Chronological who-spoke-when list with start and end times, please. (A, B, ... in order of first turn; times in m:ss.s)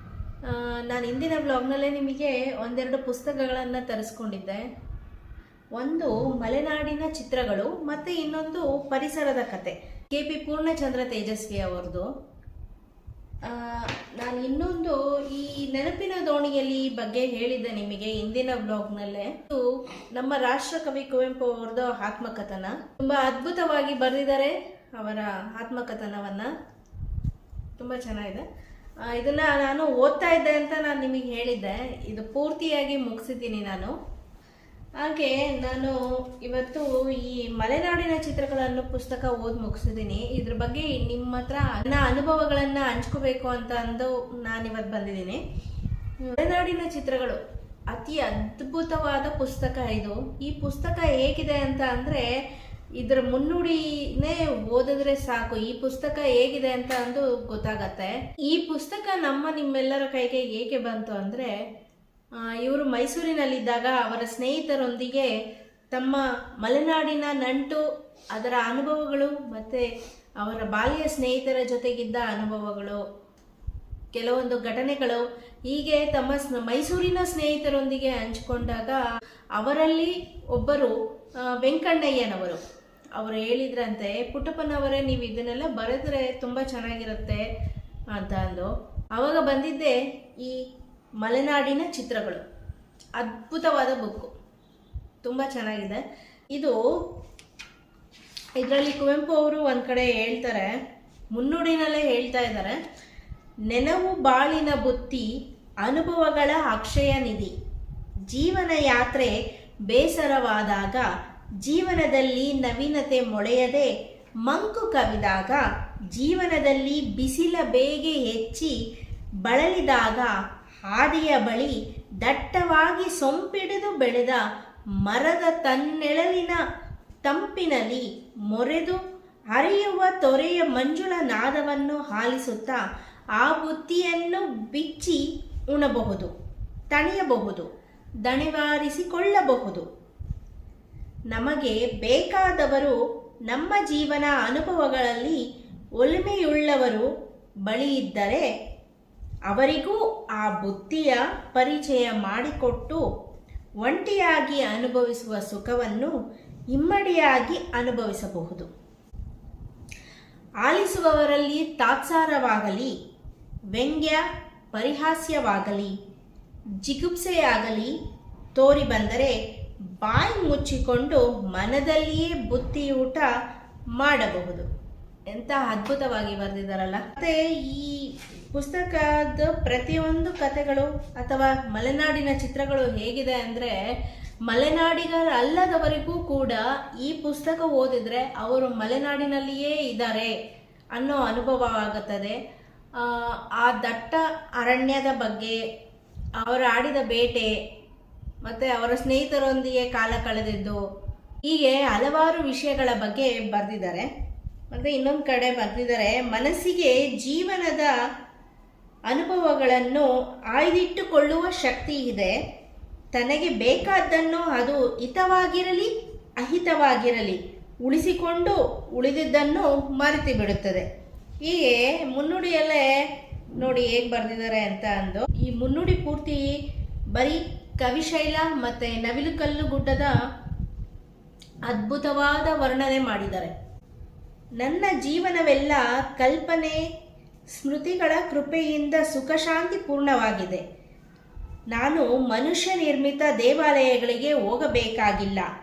0:00.4-0:04.6 A
0:05.7-0:12.1 A
0:13.4-0:26.5 A
0:27.8-0:28.4 A
0:29.0-0:33.9 A
0:35.0-0:45.4 A
0:46.2-0:52.3 A
0:53.0-1:01.5 A
1:02.4-1:05.3 A
1:05.9-1:09.8 A
1:10.4-1:13.0 A
1:14.1-1:19.0 A
1:19.5-1:22.6 A
1:23.2-1:27.4 A
1:28.1-1:30.6 A
1:31.2-1:32.4 A
1:33.2-1:34.3 A
1:35.2-1:36.0 A
1:36.5-1:36.8 A
1:38.6-1:40.7 A
1:41.3-1:42.8 A
1:43.7-1:45.3 A
1:45.8-1:47.5 A
1:48.3-1:49.4 A
1:49.9-1:51.1 A
1:51.6-1:53.9 A
1:54.4-1:58.8 A
1:59.4-2:00.3 A
2:00.8-2:04.4 A
2:05.0-2:06.6 A
2:07.2-2:12.8 A
2:13.4-2:16.3 A
2:16.9-2:17.7 A
2:18.2-2:19.8 A
2:21.3-2:23.0 A
2:23.5-2:25.4 A
2:26.0-2:27.0 A
2:27.6-2:28.5 A
2:29.5-2:33.0 A
2:33.8-2:36.1 A
2:36.7-2:38.7 A
2:40.6-2:42.9 A
2:43.7-2:45.9 A
2:46.8-2:47.9 A
2:48.5-2:49.4 A
2:50.0-2:53.3 A
2:54.0-2:54.6 A
2:55.3-3:03.8 A
3:04.4-3:10.3 A
3:10.9-3:12.4 A
3:13.0-3:15.6 A
3:16.4-3:17.5 A
3:18.4-3:20.8 A
3:21.4-3:24.1 A
3:24.7-3:27.9 A
3:29.1-3:32.3 A
3:33.1-3:40.8 A
3:41.4-3:42.9 A
3:43.6-3:46.6 A
3:47.1-3:50.2 A
3:51.6-3:53.5 A
3:54.6-3:56.8 A
3:57.5-4:00.6 A
4:01.7-4:05.5 A